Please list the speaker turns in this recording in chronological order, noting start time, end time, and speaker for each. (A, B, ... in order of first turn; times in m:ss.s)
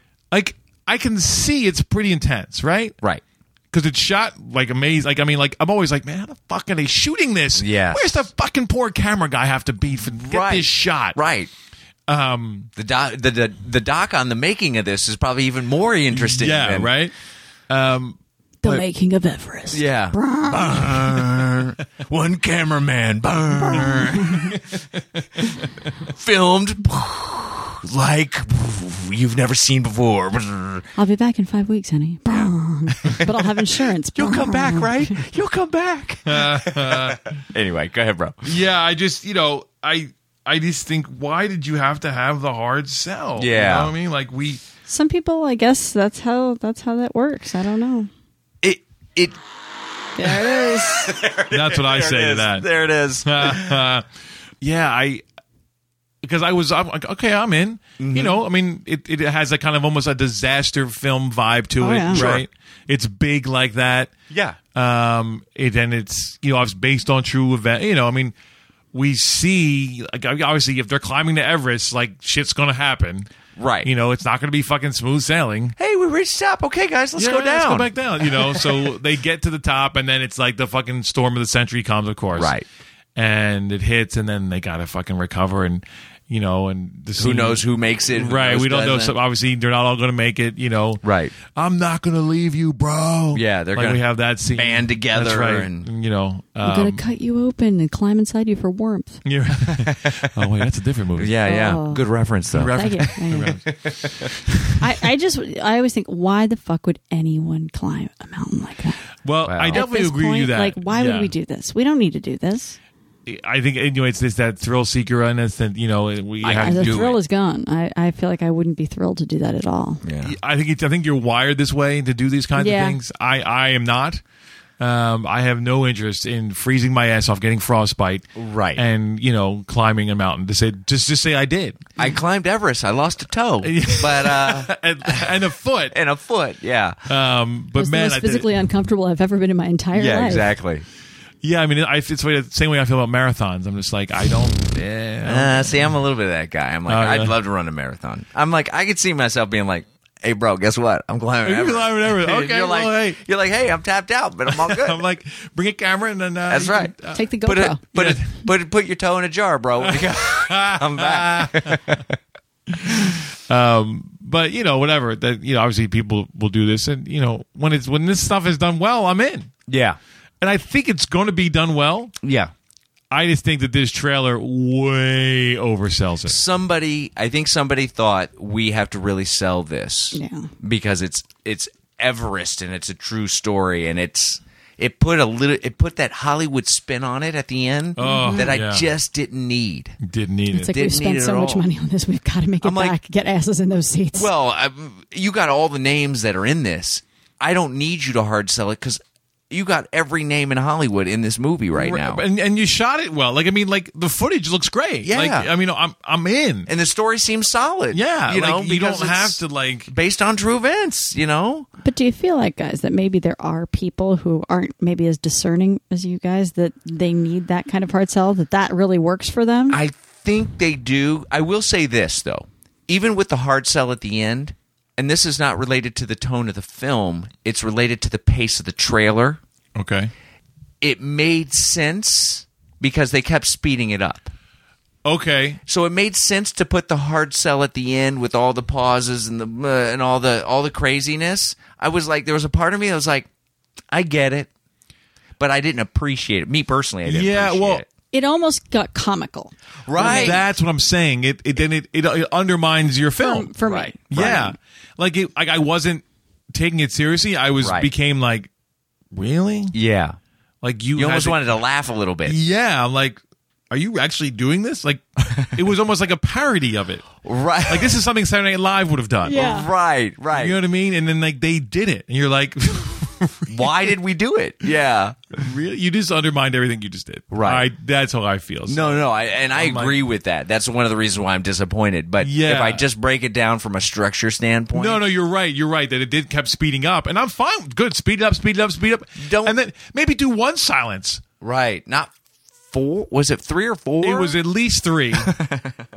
0:00.3-0:03.0 A
0:03.7-0:11.2 A
0:07.6-0:08.3 B
0:10.2-0:11.5 B
0:12.1-0:12.7 A
0:12.8-0:16.9 B
0:16.1-0:17.1 A
0:17.7-0:18.8 A
0:18.6-0:21.1 C
0:19.7-0:24.6 B
0:26.0-0:30.9 B
0:31.0-0:35.2 C
0:32.3-0:33.5 B
0:34.2-0:38.5 B
0:36.3-0:37.3 A
0:38.4-0:44.6 A
0:43.4-0:43.9 B
0:44.9-0:48.1 C
0:48.6-0:49.4 B
0:50.2-0:51.1 C
0:50.2-0:53.8 B
0:51.5-0:52.7 A
0:53.2-0:54.1 A
0:54.6-0:55.2 A
0:56.2-1:04.1 A
0:58.0-0:58.4 B
1:01.8-1:02.2 C
1:02.1-1:02.5 B
1:04.3-1:04.6 B
1:04.7-1:08.3 A
1:08.9-1:13.3 A
1:13.6-1:13.9 B
1:13.8-1:15.8 A
1:15.8-1:18.9 B
1:17.2-1:22.5 A
1:22.4-1:22.7 B
1:23.2-1:37.0 A
1:27.2-1:29.2 B
1:31.0-1:31.4 B
1:33.3-1:35.9 B
1:36.6-1:39.2 C
1:39.2-1:41.4 A
1:39.7-1:40.3 B
1:41.2-1:44.3 B
1:41.4-1:42.0 C
1:42.5-1:43.8 A
1:42.7-1:43.6 C
1:44.5-1:44.7 A
1:44.8-1:49.0 C
1:49.2-1:51.3 A
1:49.4-1:49.8 B
1:49.7-1:52.8 C
1:53.3-1:57.1 A
1:56.4-1:57.2 B
1:56.6-2:00.0 C
2:00.0-2:00.4 B
2:00.2-2:04.2 A
2:02.6-2:03.0 C
2:04.8-2:11.9 A
2:08.4-2:08.8 B
2:12.0-2:15.3 B
2:13.6-2:16.0 A
2:15.9-2:17.0 B
2:17.1-2:18.5 A
2:17.8-2:20.5 C
2:20.0-2:20.9 B
2:21.4-2:25.9 A
2:24.8-2:35.0 B
2:26.9-2:27.4 A
2:31.4-2:33.2 A
2:34.5-2:37.3 A
2:36.5-2:42.2 B
2:37.1-2:37.8 C
2:37.9-2:38.3 A
2:39.8-2:42.0 A
2:42.7-2:49.5 A
2:49.7-2:50.0 B
2:50.4-2:52.2 A
2:52.2-2:52.5 B
2:53.1-2:56.4 A
2:56.3-3:10.0 B
3:00.1-3:00.5 C
3:08.0-3:08.9 A
3:08.0-3:08.5 C
3:10.0-3:10.8 A
3:10.5-3:14.3 C
3:10.6-3:11.7 B
3:12.6-3:13.0 B
3:14.1-3:22.2 B
3:21.8-3:26.7 A
3:25.0-3:25.5 B
3:26.7-3:31.7 B
3:27.9-3:29.9 A
3:31.8-3:39.8 C
3:39.7-3:49.4 B
3:49.8-3:50.1 A
3:50.8-3:54.3 B
3:55.0-3:55.6 A
3:55.7-4:03.3 B
4:03.9-4:04.5 B
4:05.4-4:07.9 B
4:07.1-4:07.8 A
4:08.1-4:10.4 C
4:09.8-4:10.4 B
4:10.0-4:13.5 A
4:13.2-4:14.5 C
4:13.6-4:14.5 B
4:14.1-4:18.5 A
4:17.6-4:17.9 B
4:19.1-4:19.7 A
4:19.7-4:20.2 B
4:20.6-4:21.5 A
4:21.0-4:22.4 B
4:22.3-4:23.2 A
4:23.7-4:29.5 A
4:27.2-4:28.0 B
4:29.2-4:29.7 C
4:29.3-4:30.6 B
4:30.3-4:33.8 A
4:33.5-4:35.4 B
4:35.4-4:40.0 A
4:37.3-4:37.6 B
4:38.7-4:45.0 B
4:42.2-4:42.9 A
4:44.7-4:51.2 A
4:49.2-4:49.6 B
4:51.4-4:52.1 B
4:52.7-4:54.4 B
4:54.0-4:55.4 A
4:55.2-4:55.8 B